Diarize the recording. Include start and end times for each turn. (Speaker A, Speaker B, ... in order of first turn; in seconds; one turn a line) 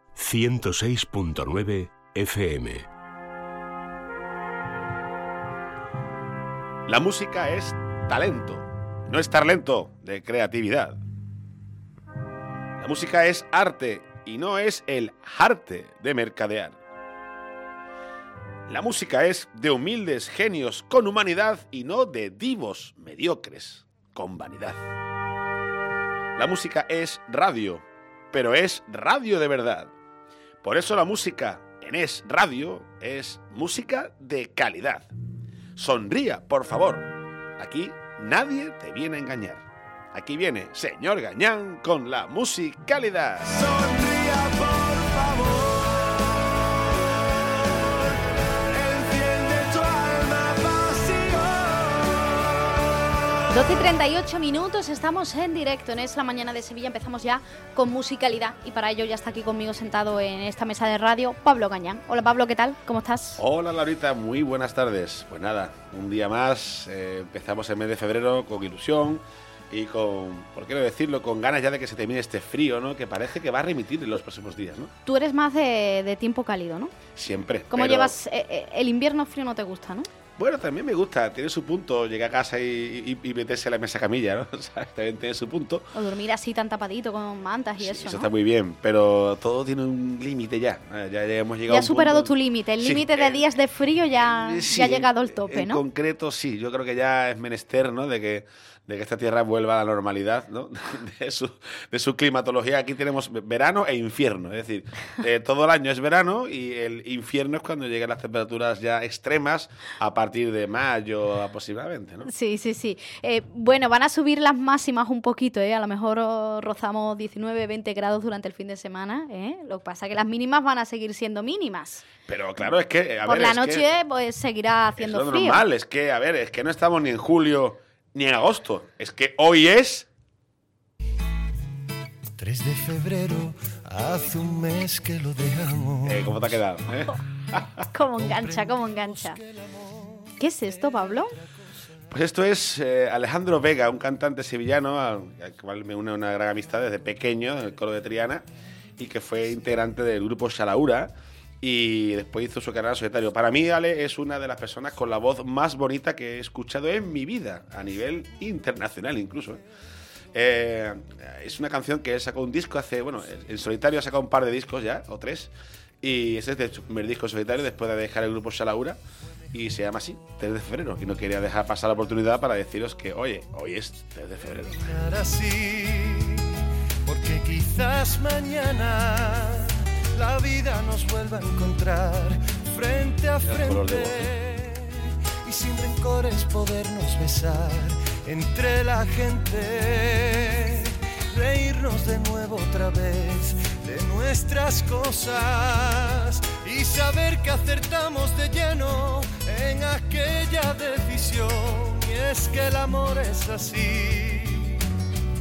Speaker A: 0.1-2.9
Speaker B: 6.9-11.0
Speaker B: 12.8-16.8
Speaker B: 18.7-24.9
Speaker B: 26.4-29.9
Speaker B: 30.6-35.1
Speaker B: 35.8-43.6
Speaker C: 43.5-46.4
Speaker C: 47.7-48.2
Speaker C: 48.7-52.6
Speaker D: 53.5-63.4
Speaker B: 63.4-74.9
Speaker D: 75.1-76.9
Speaker B: 77.2-78.2
Speaker D: 77.7-80.1
Speaker B: 80.4-85.9
Speaker D: 85.9-88.3
Speaker B: 87.8-93.5
Speaker D: 91.7-95.8
Speaker B: 94.2-112.3
Speaker D: 112.2-122.1
Speaker B: 122.3-123.9
Speaker D: 123.2-125.6
Speaker B: 125.0-130.1
Speaker C: 132.4-136.3
Speaker B: 136.0-137.9
Speaker D: 137.9-139.4
Speaker C: 138.1-140.4
Speaker D: 140.4-141.3
Speaker B: 142.1-148.4
Speaker B: 149.0-159.6
Speaker B: 160.3-169.0
Speaker B: 169.5-174.9
Speaker C: 174.8-204.8
Speaker B: 183.4-184.3